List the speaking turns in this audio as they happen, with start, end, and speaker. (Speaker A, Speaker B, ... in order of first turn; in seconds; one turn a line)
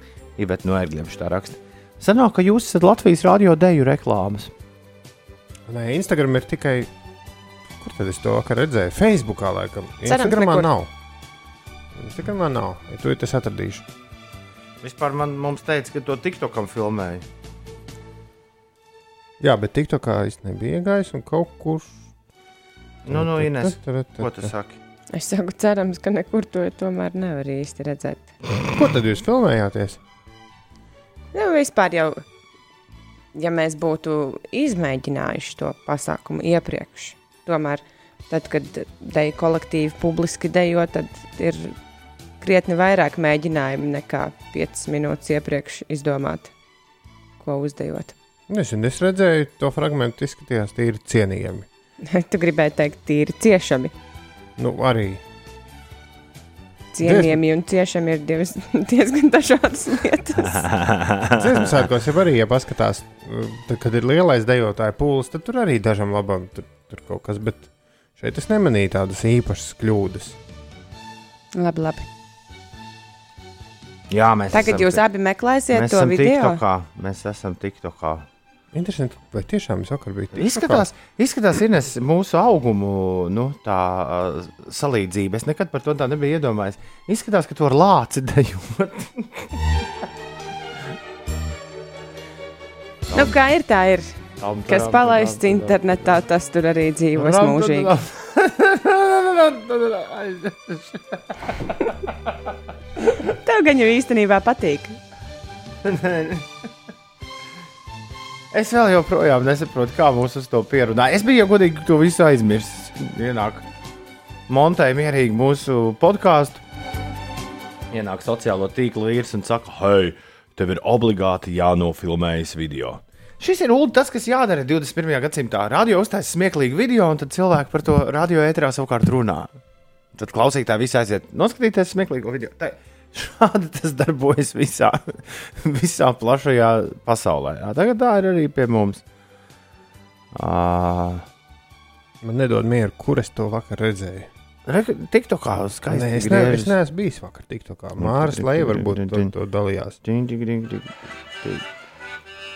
Speaker A: 0.4-4.5
Speaker B: 5.7-6.9
Speaker B: 7.8-10.9
Speaker C: 10.1-10.7
Speaker B: 11.9-13.8
Speaker A: 14.8-17.2
Speaker B: 19.4-22.0
Speaker A: 23.1-24.8
Speaker B: 23.1-24.5
Speaker C: 25.1-28.3
Speaker B: 28.6-30.0
Speaker C: 31.3-32.2
Speaker C: 33.4-41.7
Speaker C: 42.4-46.5
Speaker C: 47.4-48.1
Speaker B: 48.5-51.7
Speaker C: 52.0-53.9
Speaker B: 54.6-55.2
Speaker C: 56.9-60.7
Speaker B: 57.0-57.4
Speaker A: 60.6-61.7
Speaker B: 61.3-70.4
Speaker C: 71.5-72.1
Speaker A: 74.1-75.0
Speaker C: 74.5-76.6
Speaker A: 75.7-78.3
Speaker B: 78.7-80.9
Speaker A: 80.3-89.5
Speaker A: 93.1-93.3
Speaker C: 93.1-97.9
Speaker A: 94.4-95.9
Speaker A: 97.2-101.2
Speaker C: 103.3-105.0
Speaker A: 105.8-106.5
Speaker A: 108.5-113.7
Speaker A: 114.5-116.6
Speaker A: 117.9-129.5
Speaker A: 130.2-139.0
Speaker A: 140.3-141.3
Speaker B: 142.2-144.3
Speaker A: 144.7-146.7
Speaker B: 145.9-150.0
Speaker A: 148.0-149.3
Speaker A: 150.0-151.7